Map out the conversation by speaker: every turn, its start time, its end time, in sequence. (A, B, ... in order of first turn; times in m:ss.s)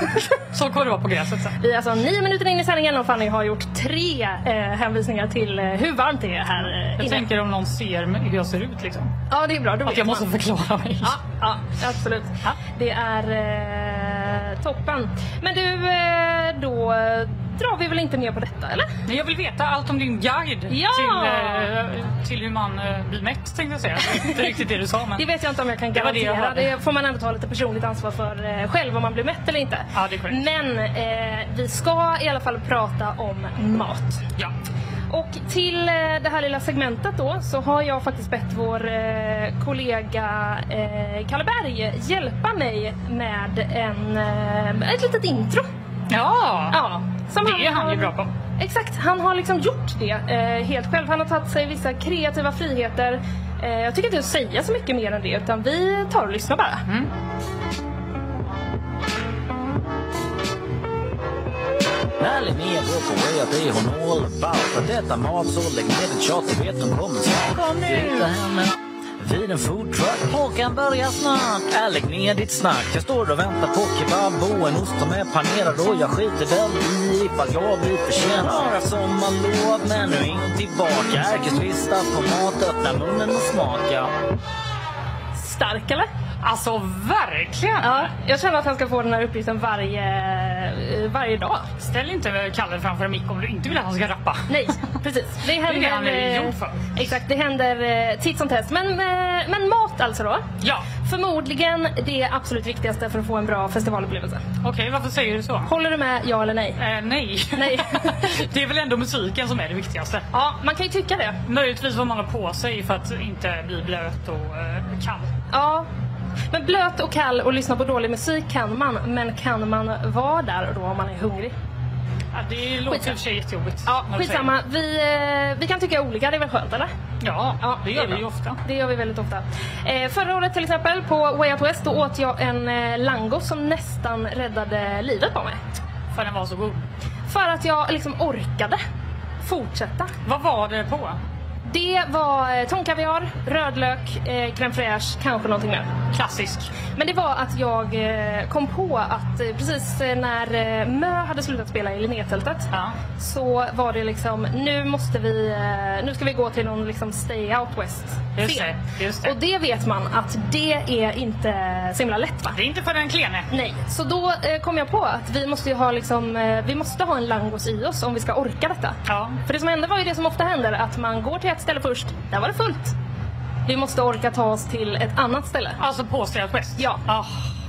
0:00.4-0:01.6 A
0:01.6-0:07.3 B
0:07.0-0:09.1 A
0:09.3-0:10.3 B
0:09.9-0:11.2 A
0:11.0-0:18.9 B
0:19.1-0:25.2 A
0:20.7-0:21.7 B
0:24.2-0:24.5 B
0:25.2-0:34.2 B
0:25.9-0:26.7 A
0:29.9-0:30.4 A
0:35.1-0:45.7 B
0:46.1-0:46.8 A
0:46.7-0:56.8 B
0:47.4-0:48.3 A
1:02.2-1:24.1 C
1:07.6-1:08.3 A
1:25.4-1:26.1 B
1:26.4-1:28.1 A
1:27.8-1:31.7 B
1:31.8-1:34.6 A
1:34.5-1:40.4 B
1:35.5-1:37.1 A
1:41.0-1:44.4 B
1:44.6-1:45.7 A
1:45.7-1:46.8 B
1:46.8-1:50.2 A
1:47.6-1:48.3 B
1:50.3-1:51.4 B
1:51.5-1:55.3 A
1:55.5-1:55.9 B
1:56.5-2:01.5 B
2:02.3-2:04.5 A
2:02.9-2:03.2 B
2:03.8-2:06.9 B
2:07.2-2:08.6 A
2:07.6-2:15.6 B
2:16.1-2:16.8 A
2:17.3-2:18.8 B
2:19.4-2:20.1 B
2:20.3-2:21.2 A
2:21.6-2:25.9 B
2:26.1-2:26.7 A
2:27.0-2:42.6 B
2:38.4-2:39.4 A
2:42.5-2:43.5 A
2:43.5-2:53.0 B
2:49.1-2:49.4 A
2:53.7-2:55.8 B
2:55.8-2:57.5 A